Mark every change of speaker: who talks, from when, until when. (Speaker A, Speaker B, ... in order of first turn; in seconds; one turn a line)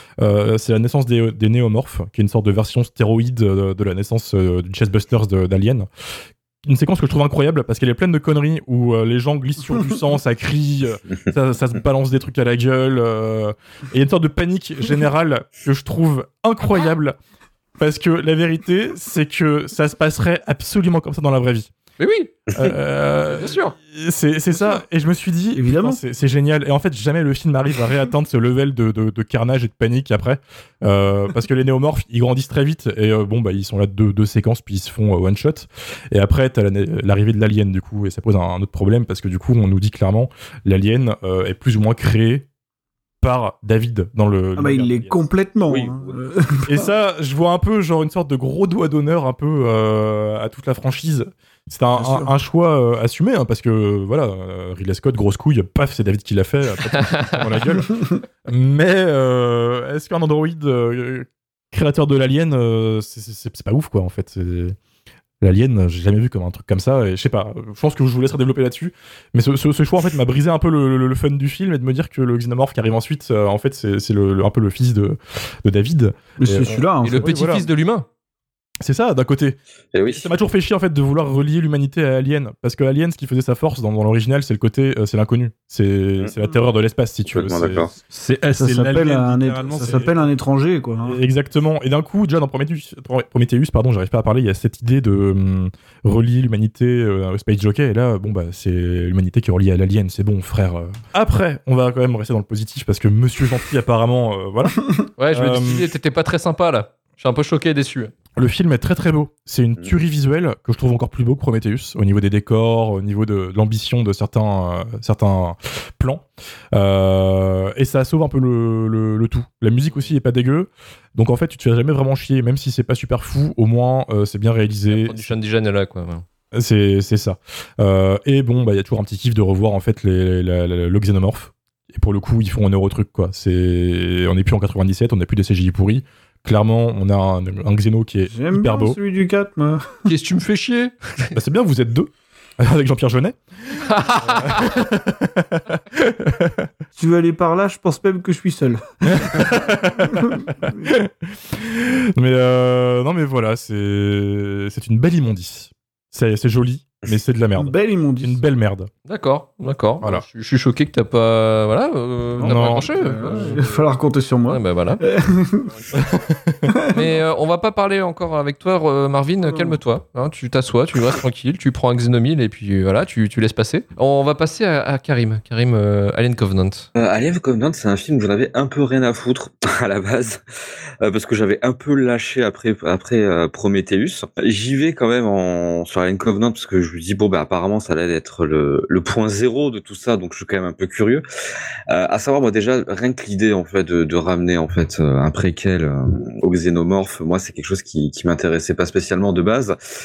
Speaker A: 0.2-5.9
Speaker A: 6.6-17.2
Speaker A: 17.8-21.7
Speaker B: 22.0-22.3
Speaker A: 22.5-42.5
Speaker B: 23.3-23.7
Speaker C: 25.6-26.0
Speaker A: 43.2-45.2
Speaker C: 44.5-46.9
Speaker D: 45.7-46.2
Speaker A: 46.7-64.8
Speaker C: 52.0-52.3
Speaker A: 65.4-77.7
Speaker C: 76.4-77.3
Speaker B: 77.0-78.0
Speaker A: 78.8-87.9
Speaker D: 79.9-80.3
Speaker D: 87.3-87.9
Speaker E: 88.1-90.1
Speaker C: 88.6-91.2
Speaker A: 89.8-90.1
Speaker A: 91.0-104.8
Speaker B: 105.2-108.1
Speaker A: 105.3-105.9
Speaker A: 108.4-125.3
Speaker B: 124.9-126.2
Speaker A: 126.5-139.0
Speaker C: 138.3-140.0
Speaker B: 140.1-141.3
Speaker A: 141.4-142.1
Speaker A: 142.6-146.7
Speaker B: 143.9-144.7
Speaker C: 146.9-149.6
Speaker A: 149.1-158.9
Speaker C: 150.1-150.8
Speaker C: 157.6-158.4
Speaker B: 159.1-163.9
Speaker C: 162.4-165.8
Speaker A: 162.4-163.6
Speaker B: 164.5-165.0
Speaker A: 165.9-166.7
Speaker C: 166.7-167.2
Speaker B: 166.9-176.9
Speaker C: 169.4-169.8
Speaker D: 176.9-180.4
Speaker D: 181.0-191.2
Speaker D: 191.9-199.8